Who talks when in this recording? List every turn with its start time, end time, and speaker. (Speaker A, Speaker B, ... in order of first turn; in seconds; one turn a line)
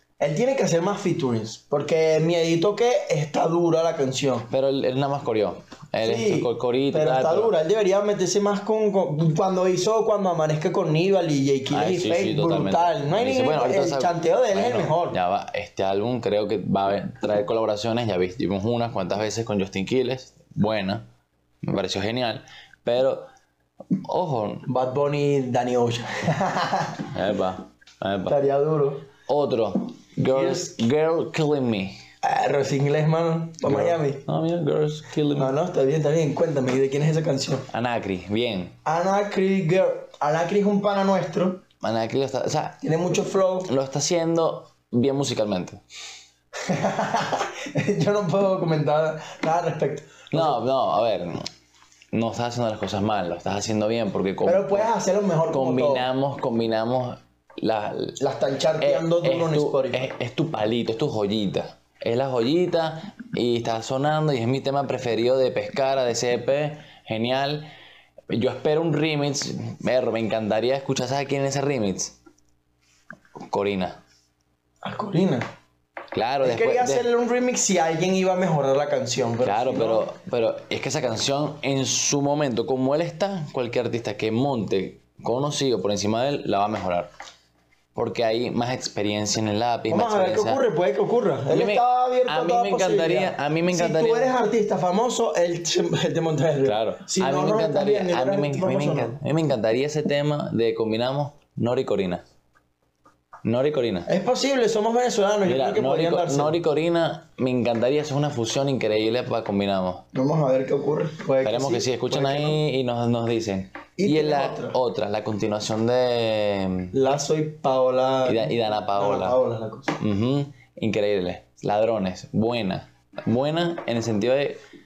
Speaker A: 0.2-4.5
Speaker B: 4.5-7.5
Speaker A: 6.0-15.2
Speaker B: 11.7-21.1
Speaker B: 21.6-23.3
Speaker B: 24.0-24.7
Speaker A: 24.7-27.1
Speaker B: 27.1-28.4
Speaker A: 28.3-29.0
Speaker B: 29.3-32.0
Speaker A: 30.3-30.8
Speaker A: 32.2-34.2
Speaker B: 33.6-35.5
Speaker A: 35.4-37.7
Speaker B: 37.7-38.8
Speaker A: 38.9-41.6
Speaker B: 41.8-42.8
Speaker A: 42.8-43.7
Speaker B: 43.6-45.8
Speaker A: 46.6-50.6
Speaker B: 50.3-51.5
Speaker B: 52.1-54.9
Speaker A: 54.4-56.1
Speaker B: 55.5-58.2
Speaker A: 58.2-60.1
Speaker B: 58.8-67.7
Speaker B: 68.3-72.1
Speaker B: 73.4-74.0
Speaker A: 74.8-75.5
Speaker B: 76.1-77.1
Speaker A: 76.4-80.1
Speaker B: 79.4-87.1
Speaker B: 88.0-90.6
Speaker A: 89.9-99.2
Speaker B: 91.5-94.4
Speaker B: 96.6-102.2
Speaker B: 103.4-104.1
Speaker A: 104.1-106.6
Speaker B: 105.4-110.0
Speaker A: 110.1-112.6
Speaker B: 111.4-116.9
Speaker A: 114.0-114.8
Speaker A: 116.9-120.0
Speaker B: 118.2-119.4
Speaker B: 120.0-124.6